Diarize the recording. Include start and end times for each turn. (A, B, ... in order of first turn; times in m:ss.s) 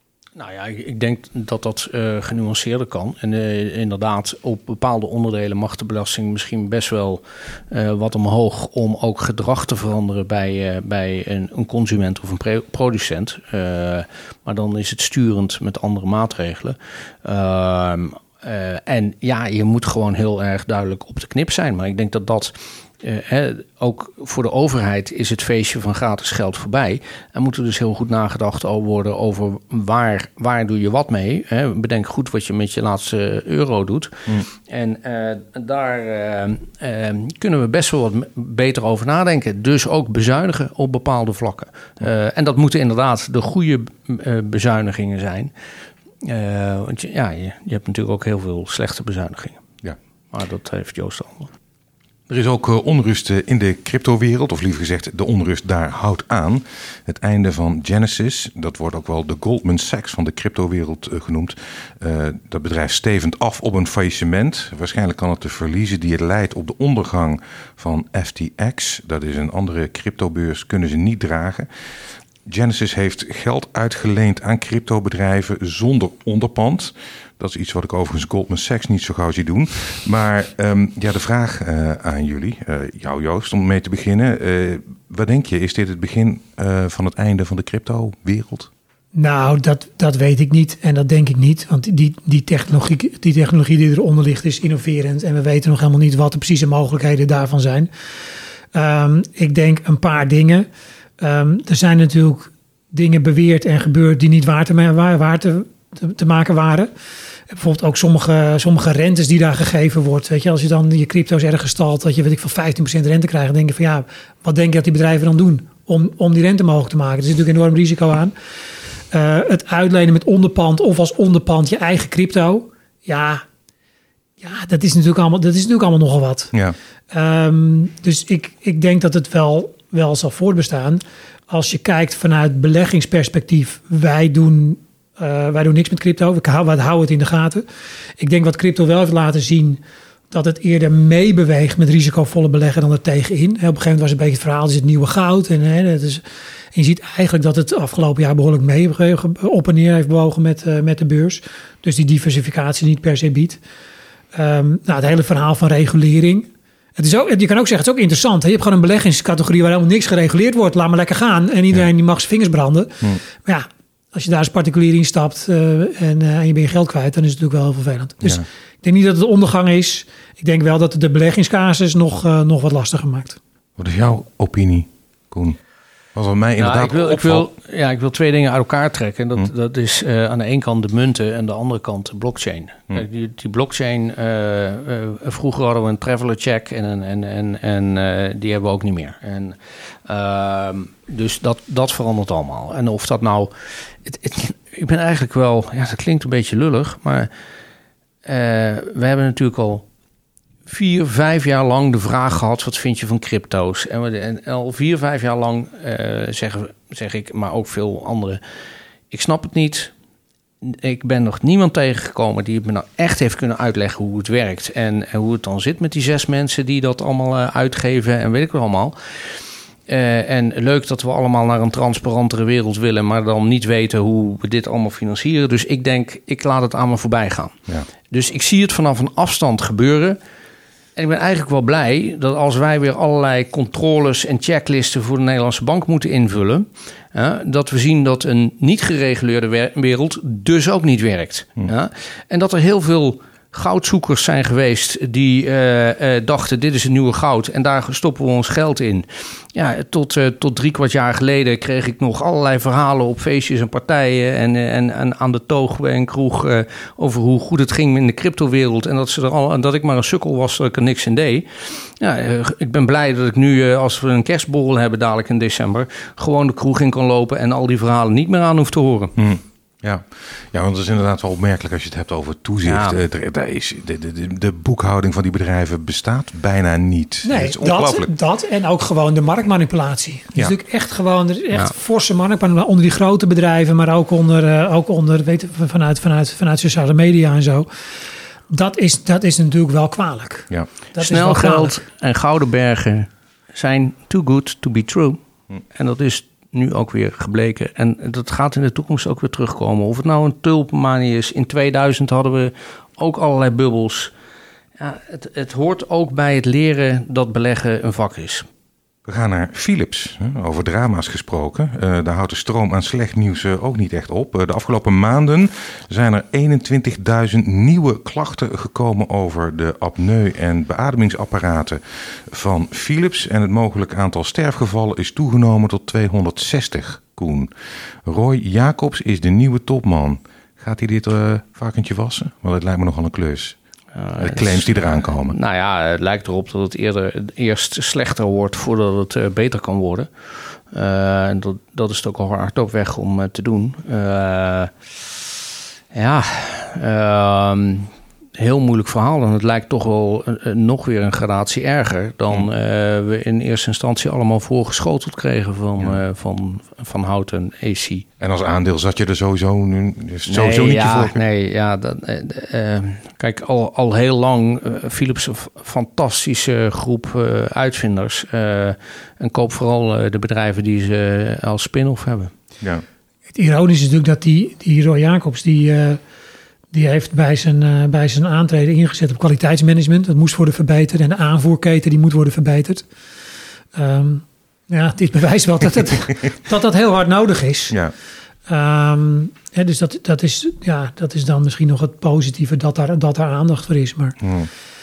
0:00.4-0:45.5 A
0:46.2-0:49.6 A
0:50.3-0:51.5 A
0:52.3-1:11.7 B
1:12.4-1:28.7 B
1:29.1-1:37.9 C
1:38.7-1:40.7 C
1:41.2-1:46.9 C
1:47.5-1:58.3 C
1:59.1-2:03.4 C
2:04.4-2:06.5 C
2:07.1-2:17.6 C
2:18.2-2:19.8 C
2:20.3-2:26.2 C
2:26.7-2:33.6 C
2:34.3-2:53.4 C
2:53.8-2:55.6 B
2:56.1-2:57.5 B
2:56.6-3:13.5 A
3:14.0-3:17.3 A
3:18.2-3:19.8 A
3:20.6-3:28.4 A
3:29.1-3:29.9 A
3:30.6-3:47.5 A
3:48.1-3:50.2 A
3:51.0-4:29.1 A
4:29.2-4:38.1 B
4:32.6-4:33.0 A
4:37.2-4:47.7 C
4:48.5-4:51.8 C
4:51.0-4:55.2 A
4:55.7-5:04.1 A
5:04.8-5:08.5 A
5:09.0-5:27.5 B
5:28.0-5:33.6 B
5:33.9-5:44.7 A
5:34.2-5:35.4 B
5:45.9-5:58.0 A
5:58.2-6:01.2 B
6:00.3-6:12.3 A
6:13.3-6:16.0 C
6:16.7-6:22.8 C
6:23.7-6:27.8 C
6:28.5-6:34.2 C
6:34.2-6:34.5 B